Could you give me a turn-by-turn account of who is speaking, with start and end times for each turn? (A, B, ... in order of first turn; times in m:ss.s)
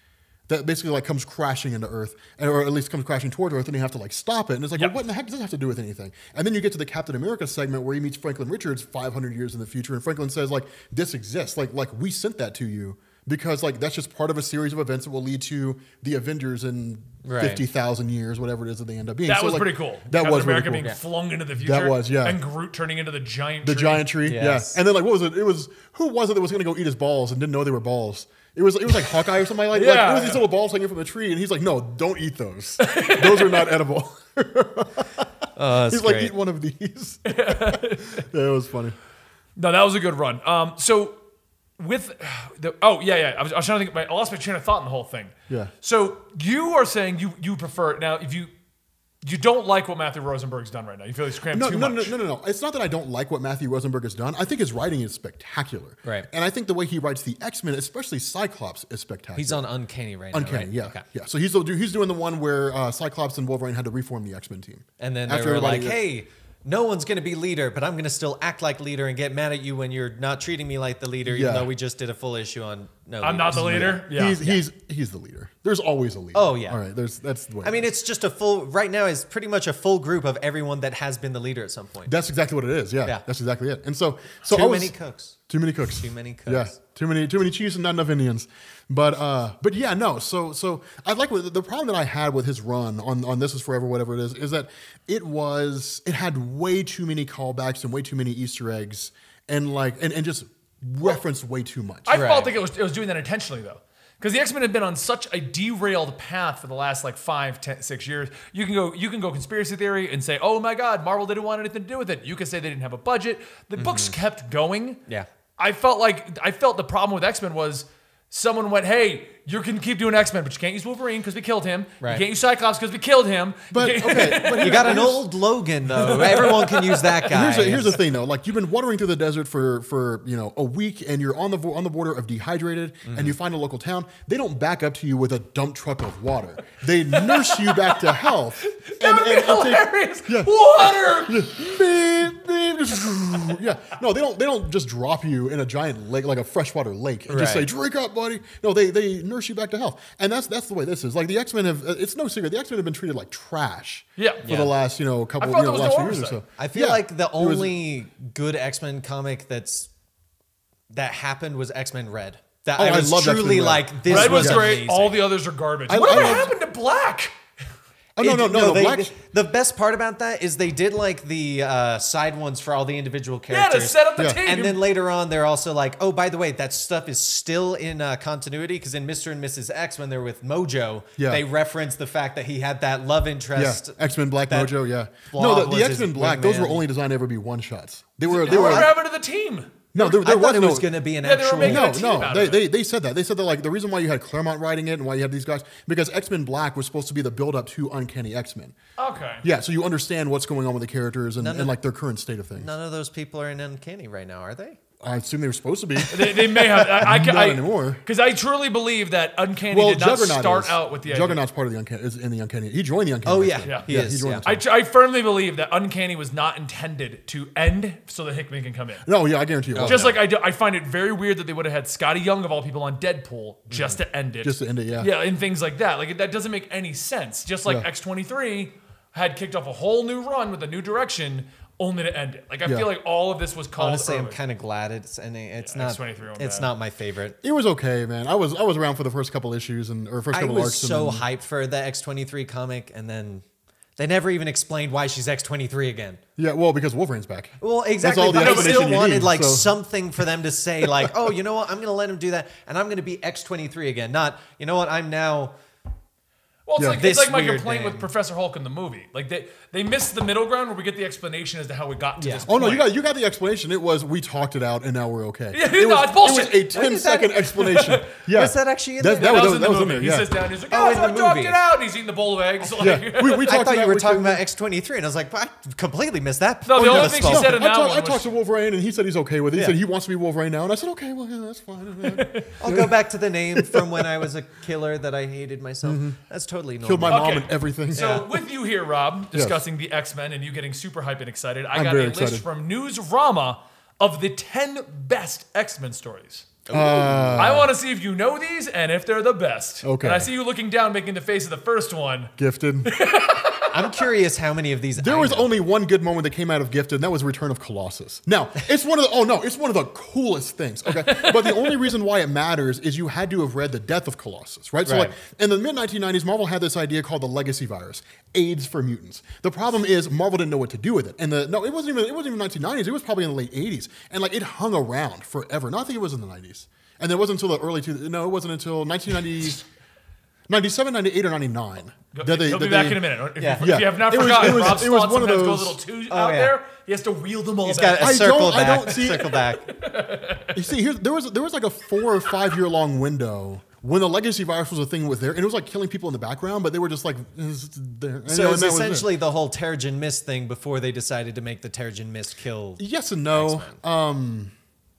0:00.5-0:20.9 A
0:17.2-0:17.6 B
0:19.2-0:24.1 C
0:21.5-0:22.4 A
0:23.6-0:39.0 A
0:24.2-0:24.8 B
0:29.7-0:30.5 C
0:32.8-0:33.7 C
0:35.6-0:36.3 B
0:37.2-0:38.2 C
0:39.6-0:41.2 C
0:41.8-0:48.5 C
0:49.2-0:52.1 C
0:51.5-0:59.7 A
0:59.4-1:01.0 B
1:00.3-1:06.0 A
1:05.0-1:14.6 B
1:11.2-1:11.7 A
1:13.2-1:14.4 C
1:13.5-1:17.9 A
1:16.3-1:16.8 B
1:17.6-1:22.1 B
1:22.0-1:24.9 A
1:24.4-1:25.4 B
1:25.5-1:42.3 A
1:26.0-1:26.7 B
1:42.0-1:55.0 C
1:42.1-1:42.6 B
1:53.8-1:54.2 B
1:55.6-2:05.3 C
2:03.7-2:05.3 A
2:04.6-2:08.0 B
2:05.9-2:07.4 C
2:07.3-2:37.8 A
2:13.0-2:13.3 B
2:17.1-2:21.5 C
2:27.3-2:27.7 B
2:34.2-2:34.4 C
2:34.4-2:34.7 B
2:35.4-2:36.4 C
2:36.6-2:39.9 B
2:40.9-2:45.3 B
2:42.8-2:44.8 A
2:44.1-2:47.3 C
2:45.9-2:46.5 A
2:46.0-2:46.5 B
2:48.2-2:49.1 A
2:48.2-3:06.8 B
2:53.5-2:54.8 C
2:54.2-2:54.4 A
3:01.2-3:01.4 A
3:03.6-3:08.9 A
3:08.3-3:09.8 C
3:08.4-3:08.9 B
3:09.9-3:11.0 A
3:10.0-3:12.2 B
3:11.2-3:12.6 C
3:11.6-3:18.8 A
3:19.0-3:19.4 C
3:19.4-3:22.7 A
3:21.4-3:21.7 B
3:22.6-3:24.8 B
3:25.0-3:28.0 A
3:26.1-3:31.4 C
3:29.7-3:34.6 A
3:33.2-3:34.4 B
3:33.6-3:33.9 C
3:34.4-3:39.0 C
3:39.0-3:40.2 A
3:39.7-3:40.2 B
3:39.8-3:54.4 C
3:43.7-3:44.0 B
3:44.4-3:45.1 A
3:52.6-3:52.9 A
3:53.8-3:57.4 B
3:55.6-3:56.7 C
3:57.4-4:01.2 A
4:00.3-4:03.4 B
4:04.0-4:06.2 B
4:06.4-4:09.7 A
4:07.6-4:15.5 B
4:08.3-4:09.0 C
4:16.7-4:22.9 C
4:16.8-4:17.0 A
4:16.9-4:18.1 B
4:22.2-4:22.5 B
4:22.5-4:30.3 A
4:25.5-4:26.7 C
4:26.7-4:27.5 B
4:27.6-4:28.1 C
4:28.3-4:29.6 B
4:29.2-4:33.5 C
4:30.7-4:31.6 B
4:32.6-4:37.6 B
4:32.8-4:34.4 A
4:36.6-4:38.3 C
4:36.8-4:43.0 A
4:42.0-4:42.5 C
4:42.6-4:48.4 B
4:43.5-4:44.3 A
4:45.8-4:46.2 A
4:46.8-4:48.2 A
4:47.1-4:56.6 C
4:49.3-4:49.6 A
4:51.7-4:52.4 A
4:56.7-4:57.6 B
4:56.7-4:57.7 A
4:57.4-5:02.3 C
4:59.8-5:00.3 A
5:02.4-5:02.9 A
5:02.8-5:04.1 C
5:03.7-5:05.5 B
5:05.0-5:29.6 A
5:11.0-5:11.7 C
5:14.8-5:15.1 B
5:30.5-5:33.0 A
5:32.1-5:38.3 C
5:33.4-5:34.8 B
5:33.6-5:35.8 A
5:36.1-5:36.5 B
5:37.6-5:39.7 B
5:38.0-5:39.3 A
5:39.0-5:40.6 C
5:40.5-5:49.1 A
5:48.3-5:53.8 B
5:52.8-5:54.5 A